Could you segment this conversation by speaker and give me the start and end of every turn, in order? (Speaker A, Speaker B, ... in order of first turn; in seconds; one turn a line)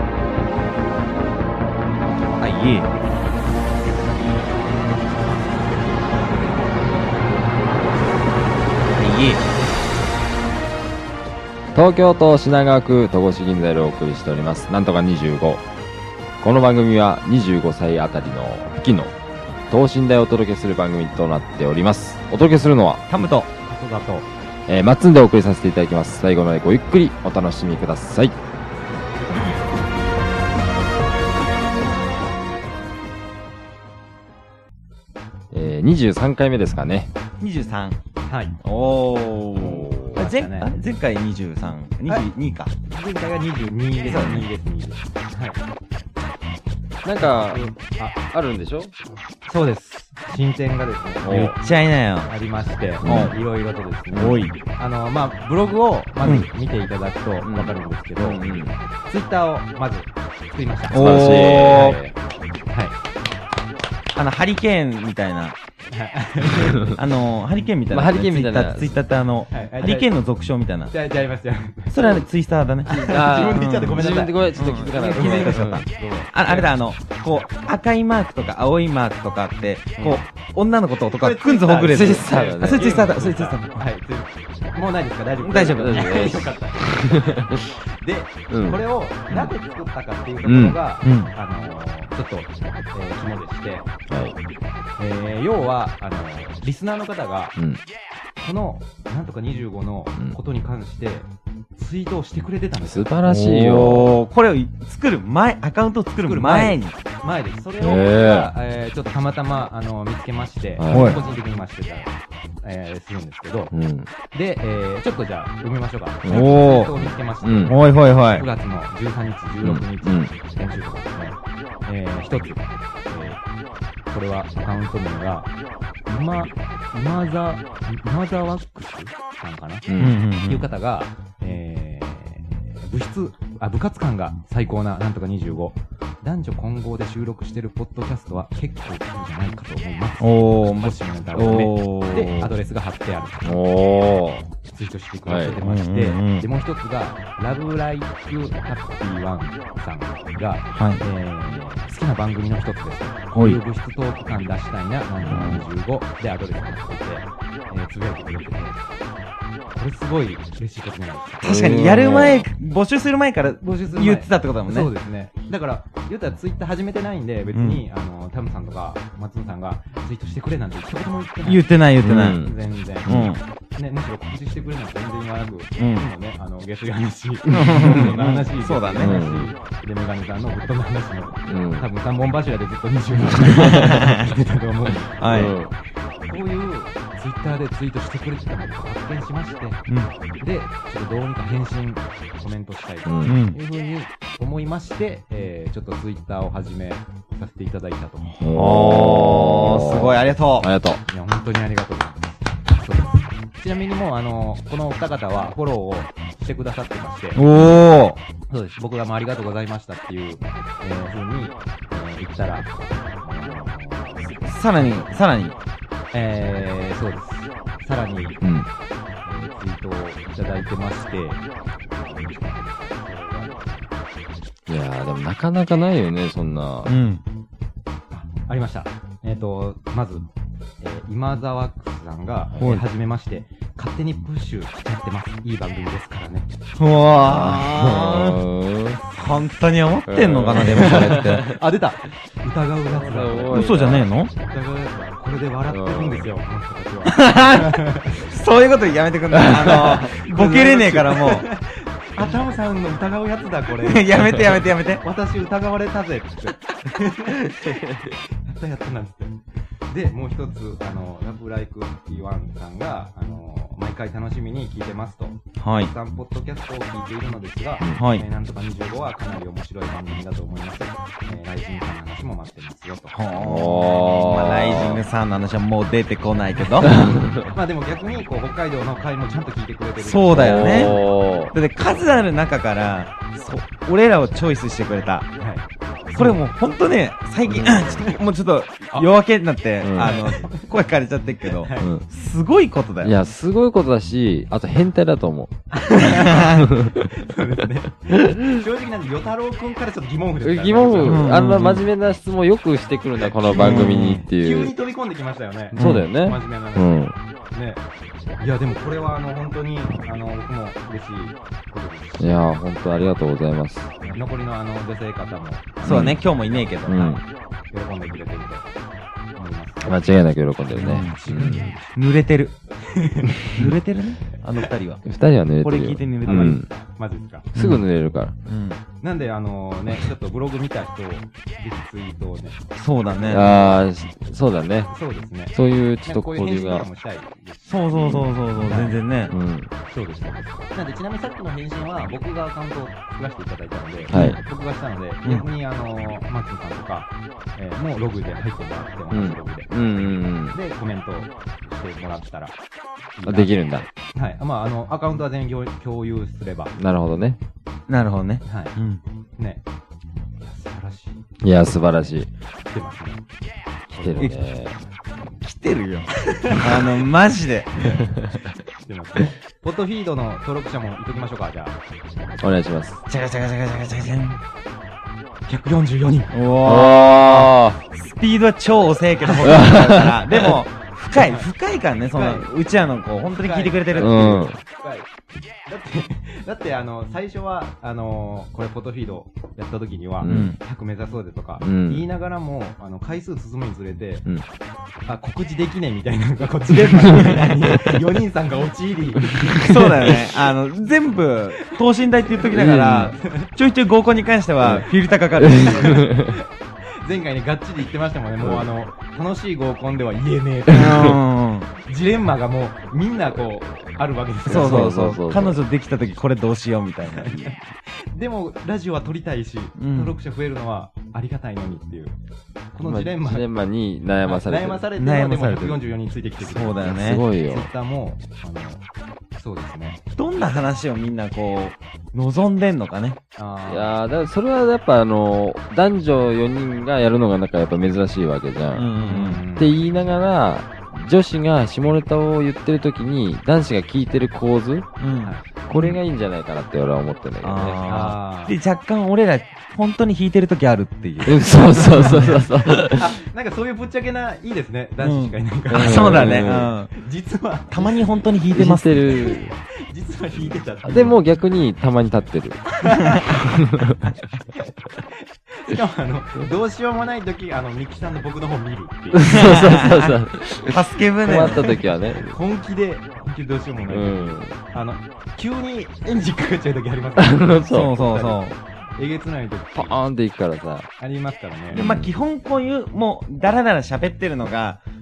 Speaker A: 2.4-2.9
Speaker A: 8.9-9.4
Speaker B: 11.7-15.6
Speaker B: 16.4-19.1
Speaker B: 19.7-23.0
Speaker A: 23.1-23.5
Speaker C: 23.2-24.3
Speaker B: 24.7-28.4
Speaker B: 35.5-37.1
Speaker A: 37.4-38.0
Speaker C: 38.3-38.6
Speaker A: 38.6-42.7
Speaker B: 39.5-40.2
Speaker C: 40.1-40.7
Speaker C: 42.8-45.6
Speaker A: 44.1-44.4
Speaker B: 44.1-44.4
Speaker B: 47.0-47.6
Speaker C: 47.2-48.2
Speaker B: 48.3-48.9
Speaker C: 49.5-51.6
Speaker B: 51.2-51.5
Speaker A: 51.5-52.3
Speaker C: 52.3-58.4
Speaker B: 53.0-53.4
Speaker A: 53.0-53.4
Speaker A: 54.1-54.5
Speaker A: 56.2-56.5
Speaker B: 57.4-58.8
Speaker C: 59.0-61.0
Speaker A: 60.9-62.0
Speaker B: 60.9-62.1
Speaker C: 62.7-63.0
Speaker A: 64.1-65.6
Speaker C: 65.9-67.0
Speaker A: 66.9-70.9
Speaker B: 67.9-68.9
Speaker C: 69.5-70.1
Speaker C: 70.9-72.2
Speaker A: 71.9-83.8
Speaker C: 72.8-76.7
Speaker B: 72.9-75.8
Speaker C: 81.1-93.9
Speaker B: 81.8-83.0
Speaker A: 85.4-86.0
Speaker B: 85.7-87.7
Speaker B: 88.5-89.5
Speaker B: 90.4-90.8
Speaker A: 91.0-91.3
Speaker B: 94.1-94.3
Speaker C: 95.0-97.5
Speaker C: 98.4-103.1
Speaker B: 102.8-104.1
Speaker A: 103.2-106.9
Speaker C: 106.2-113.7
Speaker B: 107.8-108.5
Speaker B: 110.8-111.2
Speaker A: 110.9-111.2
Speaker B: 113.7-114.1
Speaker C: 114.3-123.4
Speaker B: 116.2-117.8
Speaker A: 116.3-116.9
Speaker A: 117.7-118.5
Speaker B: 119.6-120.3
Speaker C: 124.1-125.5
Speaker C: 126.1-129.9
Speaker B: 129.9-130.2
Speaker A: 130.0-130.7
Speaker C: 130.4-143.6
Speaker A: 140.2-142.5
Speaker B: 143.4-144.5
Speaker C: 144.7-158.8
Speaker B: 145.2-145.6
Speaker A: 145.6-146.4
Speaker A: 150.7-151.0
Speaker A: 153.3-153.6
Speaker A: 155.3-155.7
Speaker C: 159.7-161.4
Speaker B: 161.4-162.5
Speaker A: 161.4-164.9
Speaker C: 163.6-171.7
Speaker A: 167.5-167.8
Speaker A: 171.4-172.4
Speaker B: 172.0-172.5
Speaker C: 172.2-189.8
Speaker B: 173.1-173.3
Speaker A: 173.1-173.4
Speaker A: 175.8-176.1
Speaker A: 177.5-179.3
Speaker B: 177.5-178.0
Speaker B: 179.0-179.5
Speaker B: 181.5-181.9
Speaker A: 183.4-184.2
Speaker A: 185.2-185.5
Speaker B: 185.3-185.7
Speaker A: 189.9-190.1
Speaker C: 190.4-198.4
Speaker B: 193.1-193.4
Speaker A: 193.2-193.6
Speaker B: 198.4-201.0
Speaker A: 198.4-200.7
Speaker C: 201.1-207.4
Speaker A: 207.3-208.2
Speaker C: 208.5-212.7
Speaker C: 213.2-215.1
Speaker A: 214.4-215.6
Speaker C: 216.1-218.4
Speaker B: 218.4-218.7
Speaker C: 219.2-223.9
Speaker B: 224.7-226.9
Speaker A: 226.8-227.2
Speaker C: 228.1-230.3
Speaker C: 230.8-236.5
Speaker A: 236.8-238.4
Speaker B: 237.2-239.0
Speaker A: 239.1-241.5
Speaker B: 240.1-241.6
Speaker C: 241.1-243.7
Speaker B: 242.8-244.1
Speaker A: 243.5-244.3
Speaker C: 244.3-248.3
Speaker B: 245.7-246.3
Speaker A: 247.1-251.5
Speaker B: 249.3-250.0
Speaker C: 249.6-254.5
Speaker A: 253.7-255.0
Speaker C: 255.0-273.1
Speaker A: 265.6-265.9
Speaker A: 267.9-268.2
Speaker A: 273.1-277.4
Speaker B: 273.4-275.0
Speaker C: 276.6-281.0
Speaker B: 276.8-277.5
Speaker A: 280.0-281.0
Speaker B: 280.3-281.5
Speaker A: 281.5-285.3
Speaker C: 285.4-286.4
Speaker A: 286.1-293.1
Speaker B: 287.5-288.0
Speaker B: 289.8-290.2
Speaker C: 290.0-290.7
Speaker C: 291.4-291.9
Speaker B: 293.0-295.5
Speaker C: 295.7-301.4
Speaker A: 296.0-296.7
Speaker B: 296.4-297.1
Speaker B: 298.1-298.5
Speaker B: 300.4-304.7
Speaker A: 301.0-301.9
Speaker C: 303.2-307.8
Speaker A: 303.5-304.2
Speaker B: 305.7-307.1
Speaker A: 305.8-306.1
Speaker C: 308.4-312.6
Speaker B: 312.2-313.9
Speaker C: 314.0-317.1
Speaker A: 315.8-317.2
Speaker B: 315.8-316.2
Speaker B: 316.9-317.2
Speaker C: 317.7-318.7
Speaker C: 319.4-320.0
Speaker B: 319.8-321.7
Speaker A: 320.7-322.5
Speaker C: 320.8-322.0
Speaker C: 322.8-323.6
Speaker A: 323.5-325.1
Speaker B: 325.1-326.6
Speaker A: 325.6-326.6
Speaker C: 326.2-327.5
Speaker B: 327.5-328.3
Speaker A: 327.6-327.8
Speaker A: 328.4-328.8
Speaker C: 329.0-333.8
Speaker A: 332.8-333.5
Speaker B: 333.3-334.9
Speaker C: 334.9-338.9
Speaker B: 335.5-336.9
Speaker A: 337.6-339.3
Speaker B: 339.3-339.7
Speaker C: 339.9-349.7
Speaker B: 344.1-344.4
Speaker A: 344.1-344.4
Speaker B: 349.1-350.6
Speaker C: 350.5-352.5
Speaker C: 353.2-356.7
Speaker B: 353.2-353.9
Speaker B: 356.8-357.4
Speaker A: 357.9-359.0
Speaker C: 358.4-358.8
Speaker C: 359.4-359.6
Speaker C: 360.4-362.1
Speaker B: 361.4-362.3
Speaker C: 362.7-363.2
Speaker B: 363.9-364.8
Speaker C: 363.9-364.4
Speaker A: 365.4-367.9
Speaker C: 366.1-366.8
Speaker B: 368.1-368.4
Speaker C: 368.8-371.8
Speaker B: 372.4-373.0
Speaker A: 373.1-374.4
Speaker C: 375.5-376.4
Speaker A: 376.3-384.5
Speaker B: 376.6-377.8
Speaker C: 379.2-379.5
Speaker B: 379.4-380.5
Speaker C: 381.1-381.5
Speaker C: 382.1-382.5
Speaker C: 383.2-385.1
Speaker B: 384.0-384.6
Speaker C: 385.6-394.2
Speaker B: 390.2-390.5
Speaker A: 390.2-390.6
Speaker B: 391.6-392.1
Speaker C: 395.1-400.2
Speaker A: 396.7-397.9
Speaker B: 399.6-400.0
Speaker A: 399.6-406.0
Speaker C: 401.6-403.5
Speaker B: 402.5-403.1
Speaker B: 404.6-406.3
Speaker C: 405.5-406.4
Speaker C: 407.0-411.2
Speaker B: 408.4-408.7
Speaker A: 410.7-411.7
Speaker C: 411.7-414.9
Speaker B: 414.4-415.6
Speaker A: 414.5-417.6
Speaker C: 417.1-422.1
Speaker A: 419.8-420.1
Speaker C: 422.7-423.4
Speaker B: 422.8-424.9
Speaker C: 424.2-428.8
Speaker A: 424.9-425.8
Speaker A: 426.4-427.2
Speaker B: 426.8-427.7
Speaker C: 429.4-430.0
Speaker A: 430.2-433.2
Speaker C: 433.4-434.0
Speaker B: 433.7-438.9
Speaker A: 438.7-439.4
Speaker C: 439.0-439.8
Speaker B: 439.6-444.9
Speaker A: 445.0-446.0
Speaker B: 445.6-447.9
Speaker A: 447.4-452.4
Speaker C: 447.9-448.6
Speaker B: 451.2-453.1
Speaker C: 451.7-458.1
Speaker A: 455.0-456.9
Speaker B: 455.7-456.7
Speaker A: 457.7-459.4
Speaker B: 458.5-459.5
Speaker C: 459.1-461.2
Speaker B: 460.8-462.8
Speaker C: 462.7-463.6
Speaker B: 463.3-464.1
Speaker C: 464.5-469.6
Speaker B: 469.1-472.4
Speaker A: 469.3-471.8
Speaker C: 471.4-480.0
Speaker B: 473.9-474.6
Speaker B: 477.2-477.9
Speaker A: 477.7-478.6
Speaker B: 479.7-480.9
Speaker C: 481.0-481.9
Speaker B: 481.7-482.1
Speaker A: 481.7-484.8